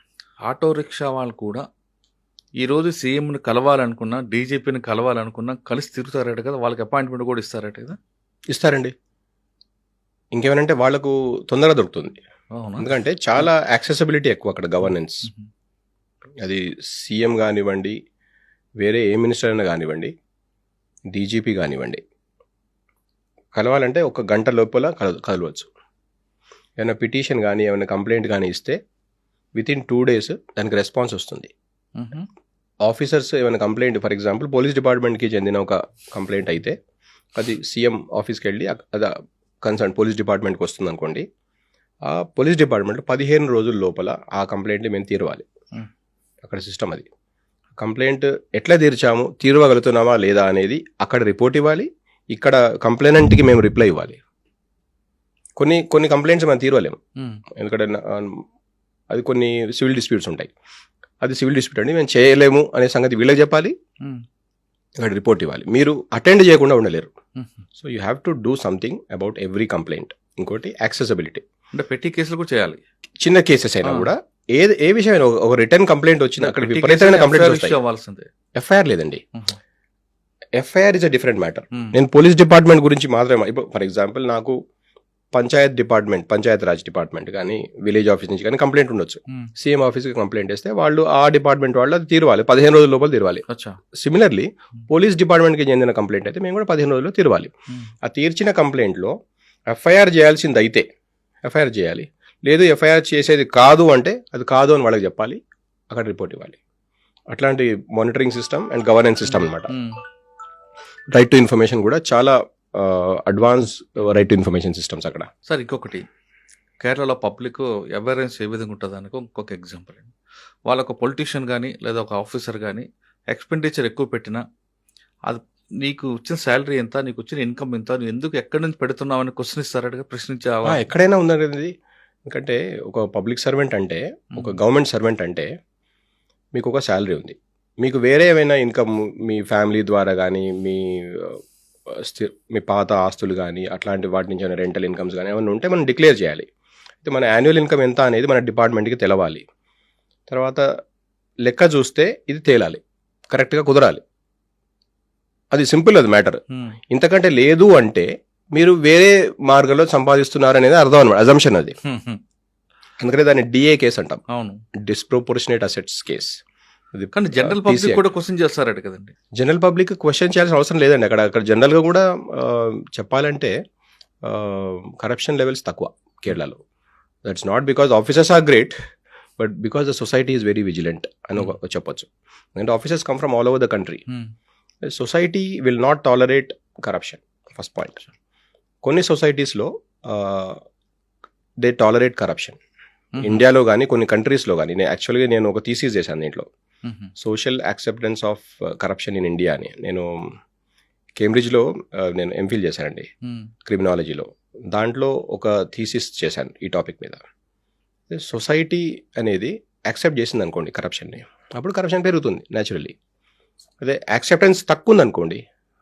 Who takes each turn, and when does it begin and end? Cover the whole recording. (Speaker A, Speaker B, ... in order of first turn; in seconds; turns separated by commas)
Speaker A: 0.5-1.6, Speaker A: 2.6-8.0, Speaker B: 8.5-8.9, Speaker B: 10.3-12.2, Speaker A: 12.6-13.4, Speaker B: 12.8-15.3, Speaker B: 16.4-18.0, Speaker B: 18.8-20.1, Speaker B: 21.1-22.0, Speaker B: 23.6-25.7, Speaker B: 26.8-28.8, Speaker B: 29.6-31.5, Speaker A: 32.0-32.3, Speaker B: 32.9-36.8, Speaker B: 37.4-39.1, Speaker B: 39.6-41.2, Speaker B: 42.0-45.5, Speaker B: 46.5-47.1, Speaker B: 47.8-54.2, Speaker B: 55.6-57.0, Speaker A: 57.2-57.4, Speaker B: 57.6-58.5, Speaker B: 59.1-60.5, Speaker B: 61.2-63.7, Speaker B: 65.0-67.1, Speaker A: 67.4-67.6, Speaker B: 67.8-71.4, Speaker A: 71.7-72.8, Speaker B: 73.2-77.8, Speaker A: 73.8-74.1, Speaker A: 76.4-78.3, Speaker B: 78.6-79.2, Speaker B: 80.6-84.6, Speaker B: 85.3-97.5, Speaker A: 93.5-93.8, Speaker B: 98.0-99.1, Speaker B: 99.7-100.9, Speaker B: 101.5-105.4, Speaker B: 105.9-106.6, Speaker B: 107.3-109.7, Speaker A: 109.3-110.0, Speaker B: 111.1-115.3, Speaker A: 115.5-116.1, Speaker A: 116.8-120.1, Speaker A: 120.7-124.4, Speaker A: 125.3-130.9, Speaker B: 130.7-131.7, Speaker B: 132.3-135.5, Speaker B: 136.6-141.4, Speaker B: 142.0-146.5, Speaker B: 147.0-149.4, Speaker B: 150.3-150.6, Speaker B: 151.4-154.0, Speaker B: 155.5-161.8, Speaker A: 156.5-156.8, Speaker A: 161.8-162.2, Speaker B: 163.0-164.2, Speaker A: 164.3-164.6, Speaker B: 164.9-166.4, Speaker B: 166.9-168.0, Speaker A: 167.1-169.1, Speaker B: 169.4-173.5, Speaker B: 174.2-176.6, Speaker B: 177.2-178.8, Speaker B: 179.4-184.0, Speaker B: 184.9-188.0, Speaker B: 188.8-190.6, Speaker B: 191.6-192.6, Speaker A: 193.2-193.4, Speaker B: 193.2-196.5, Speaker A: 196.8-197.1, Speaker B: 197.2-200.1, Speaker B: 201.2-203.1, Speaker A: 203.2-203.5, Speaker B: 203.7-207.2, Speaker B: 208.1-212.9, Speaker B: 213.8-215.4